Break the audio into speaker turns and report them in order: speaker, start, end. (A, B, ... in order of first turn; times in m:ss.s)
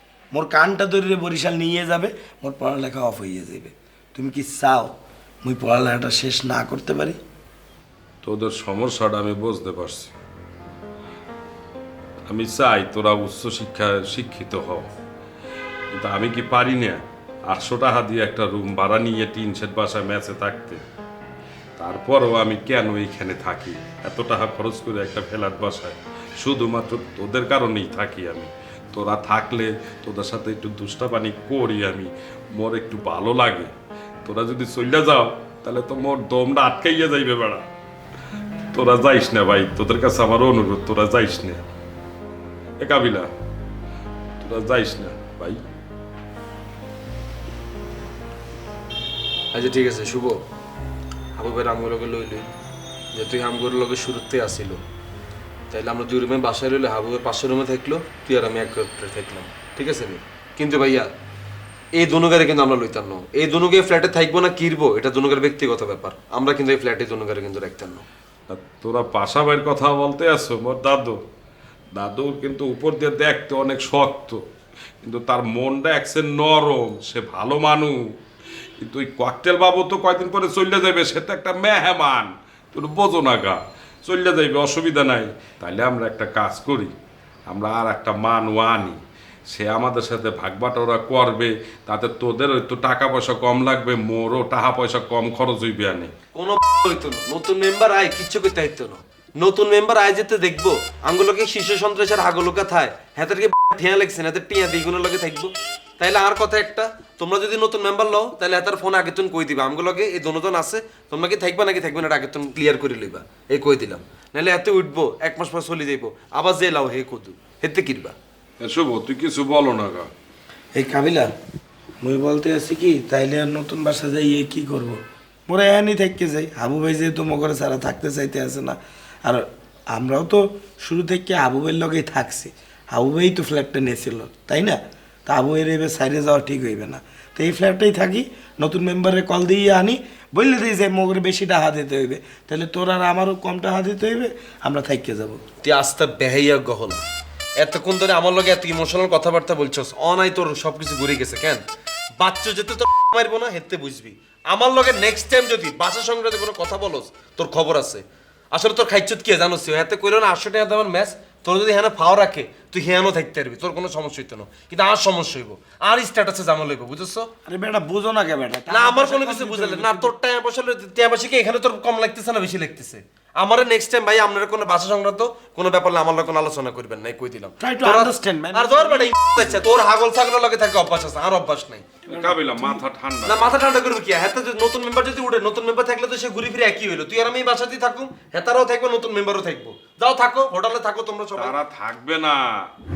0:00.3-0:07.2 A
0:08.2-0:10.1 B
0:12.3-0:14.9 B
0:15.9-0:20.8 B
0:21.8-0:33.7 B
0:34.2-0:37.6 B
0:38.7-0:41.6 B
0:42.8-0:43.3 B
0:44.4-0:45.6 B
0:49.5-0:50.4 C
0:51.4-0:52.5 C
0:53.1-0:54.8 C
0:55.7-1:01.1 C
1:02.0-1:08.0 C
1:08.5-1:11.2 B
1:12.0-1:14.4 B
1:15.0-1:18.2 B
1:18.8-1:26.9 B
1:27.5-1:36.1 B
1:36.4-1:58.2 C
1:58.6-2:00.1 B
2:00.8-2:01.3 A
2:02.0-2:25.4 A
2:25.6-2:27.0 C
2:27.6-2:31.6 C
2:32.2-2:47.3 C
2:47.5-2:50.1 A
2:48.7-3:02.1 C
2:57.6-2:59.7 A
3:02.1-3:03.5 B
3:03.3-3:11.6 C
3:11.4-3:12.7 B